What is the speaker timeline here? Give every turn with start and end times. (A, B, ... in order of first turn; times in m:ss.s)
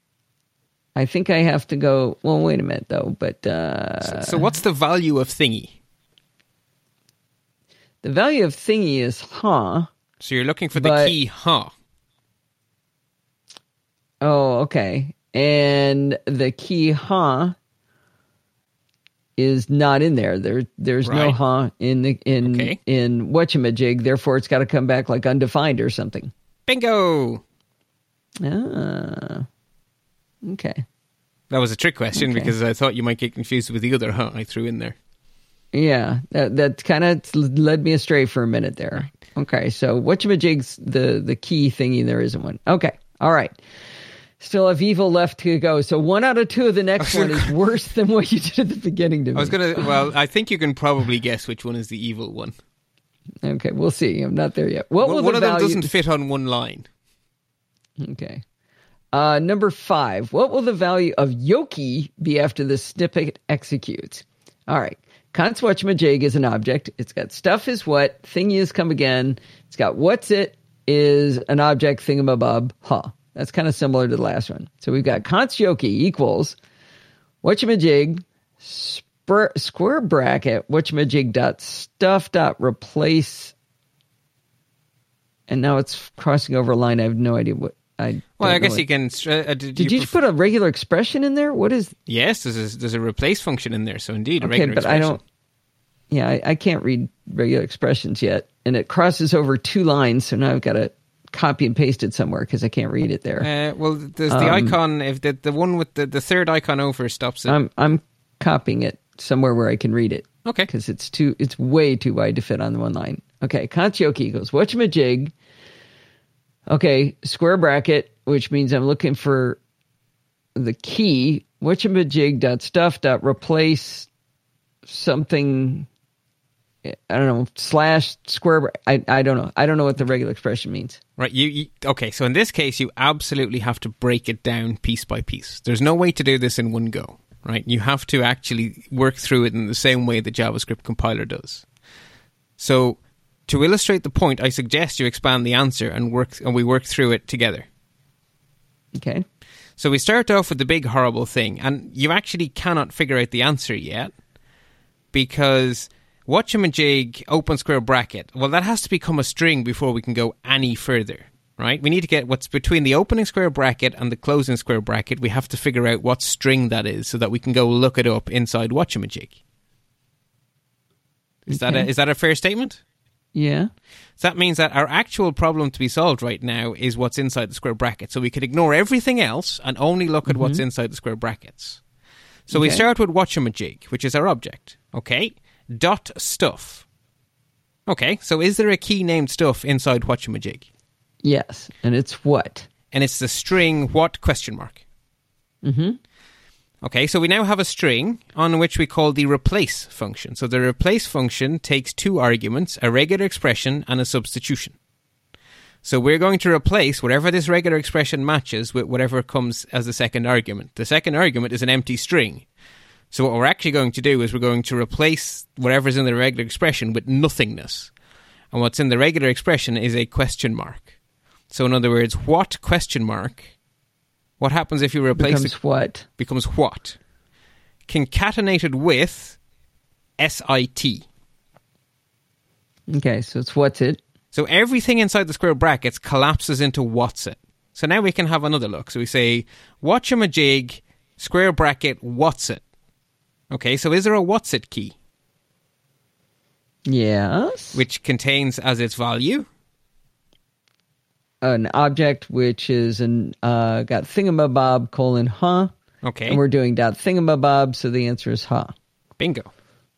0:01.0-0:04.5 A
0:04.0-0:05.7 B
0:08.0-0:09.9 A
0:10.2-0:11.7 B
0:10.7-0:11.1 A
0:14.2-0:17.5 A
0:19.4-0:26.3 A
0:21.0-0:21.4 B
0:22.4-0:22.8 B
0:26.7-0:27.4 B
0:28.4-0:29.4 A
0:30.4-0:30.8 A
0:31.5-0:35.0 B
0:32.1-0:32.5 A
0:35.7-0:43.6 A
0:44.4-0:50.0 A
0:47.0-0:47.5 B
0:49.3-0:52.5 B
0:53.4-0:55.9 A
0:55.0-0:56.9 B
0:58.0-0:58.4 A
0:59.1-1:16.6 A
1:17.4-1:23.5 A
1:25.5-1:28.8 A
1:28.4-1:30.2 B
1:29.8-1:31.9 A
1:32.1-1:35.2 B
1:34.4-1:35.2 A
1:36.1-1:43.5 A
1:43.4-1:47.6 B
1:44.3-1:44.8 A
1:47.5-1:55.3 A
1:56.7-1:59.6 A
2:00.6-2:04.1 A
2:04.8-2:05.9 A
2:06.8-2:11.0 A
2:11.2-2:21.6 B
2:22.6-2:27.7 B
2:28.9-2:29.2 A
2:29.8-2:34.1 B
2:35.1-2:49.4 B
2:51.5-2:52.8 B
2:51.5-2:51.9 A
2:53.3-2:53.7 A
2:54.2-3:01.8 B
3:00.2-3:00.6 A
3:02.5-3:06.8 B
3:02.5-3:02.8 A
3:07.9-3:10.6 B
3:11.2-3:12.7 A
3:12.9-3:14.8 B
3:15.6-3:16.0 A
3:16.8-3:24.7 B
3:25.8-3:32.4 B
3:33.1-3:37.9 B
3:38.5-3:40.9 B
3:41.5-3:43.5 B
3:44.4-3:45.5 B
3:45.2-3:46.0 A
3:46.2-3:47.0 B
3:47.9-3:49.4 B
3:50.2-3:51.0 B
3:52.9-3:54.0 A
3:54.3-4:02.6 B
4:03.5-4:04.9 B
4:06.8-4:07.8 A
4:07.7-4:09.5 B
4:11.4-4:15.7 A
4:16.0-4:16.4 B
4:16.3-4:18.7 A
4:19.2-4:19.5 B